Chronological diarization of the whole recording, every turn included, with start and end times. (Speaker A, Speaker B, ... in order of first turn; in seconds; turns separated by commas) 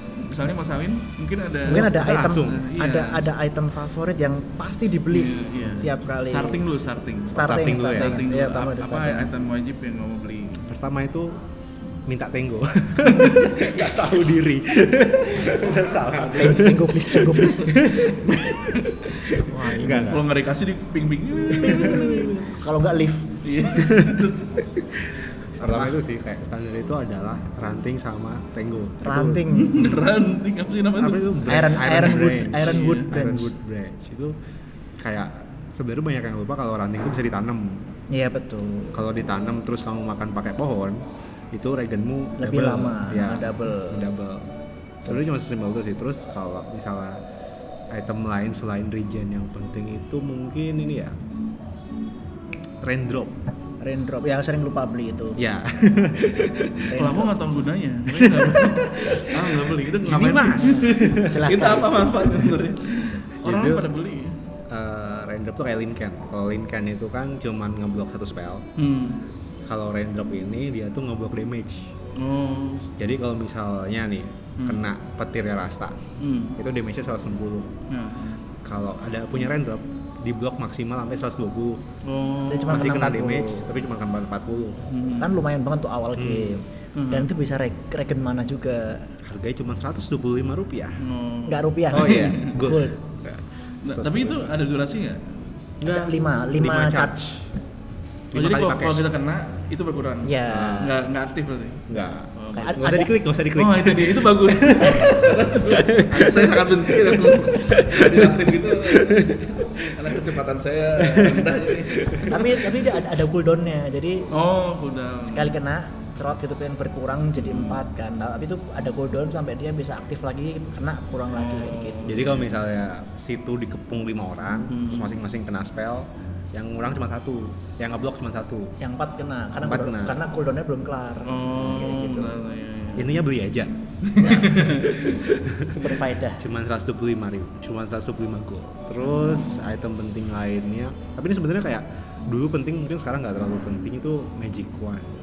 Speaker A: 0.1-3.3, Speaker B: 1.6-6.6, Speaker C: 2.2-2.6, Speaker A: 5.1-10.7, Speaker B: 7.3-9.3, Speaker C: 7.4-8.2, Speaker C: 10.6-11.4, Speaker C: 12.1-20.3, Speaker A: 13.1-13.8, Speaker A: 16.1-16.7, Speaker B: 16.2-18.5, Speaker A: 18.1-22.4, Speaker B: 19.4-20.2, Speaker B: 21.5-23.4, Speaker A: 23.4-24.6, Speaker C: 23.8-30.0, Speaker B: 25.6-26.0, Speaker B: 29.0-29.9, Speaker A: 29.5-31.3, Speaker C: 31.0-34.4, Speaker B: 31.5-33.5, Speaker A: 32.1-33.1, Speaker C: 35.0-37.9, Speaker B: 38.1-39.0, Speaker C: 38.9-47.2, Speaker B: 42.4-44.1, Speaker C: 47.9-51.2, Speaker C: 52.8-53.4, Speaker B: 53.8-55.4, Speaker C: 55.4-56.8, Speaker A: 56.5-64.4, Speaker B: 56.9-57.3, Speaker C: 58.1-61.4, Speaker B: 60.5-62.5, Speaker C: 63.4-63.9, Speaker C: 64.7-68.7, Speaker A: 68.8-69.2, Speaker C: 69.7-71.9, Speaker A: 72.2-72.9, Speaker C: 73.0-76.0, Speaker A: 74.6-74.9, Speaker A: 76.2-76.6, Speaker C: 76.6-77.7, Speaker A: 77.9-78.3, Speaker C: 78.6-81.8, Speaker A: 82.0-82.9, Speaker B: 82.5-83.6, Speaker C: 82.7-84.8, Speaker A: 84.9-85.3, Speaker B: 85.2-89.1, Speaker C: 86.2-86.6, Speaker A: 87.0-87.3, Speaker C: 89.2-91.0, Speaker A: 91.0-92.6, Speaker B: 91.5-93.0, Speaker C: 91.9-94.5, Speaker A: 93.8-95.5, Speaker C: 95.8-97.4, Speaker B: 95.8-97.2, Speaker C: 98.3-99.1, Speaker A: 98.3-102.9, Speaker B: 100.2-101.0, Speaker C: 100.5-100.9, Speaker C: 101.9-110.2, Speaker B: 102.5-103.1, Speaker A: 103.5-112.5, Speaker C: 111.0-112.9, Speaker B: 112.3-114.3, Speaker A: 114.3-115.5, Speaker B: 115.2-122.5, Speaker A: 117.4-117.8, Speaker A: 121.3-122.5, Speaker C: 122.0-128.7, Speaker A: 124.7-125.2, Speaker B: 128.8-132.0, Speaker C: 129.6-130.2, Speaker A: 131.2-133.2, Speaker C: 131.6-132.3, Speaker C: 133.0-133.7, Speaker A: 134.0-135.3, Speaker B: 134.2-134.7, Speaker C: 134.9-145.1, Speaker B: 135.7-136.4, Speaker B: 139.0-139.6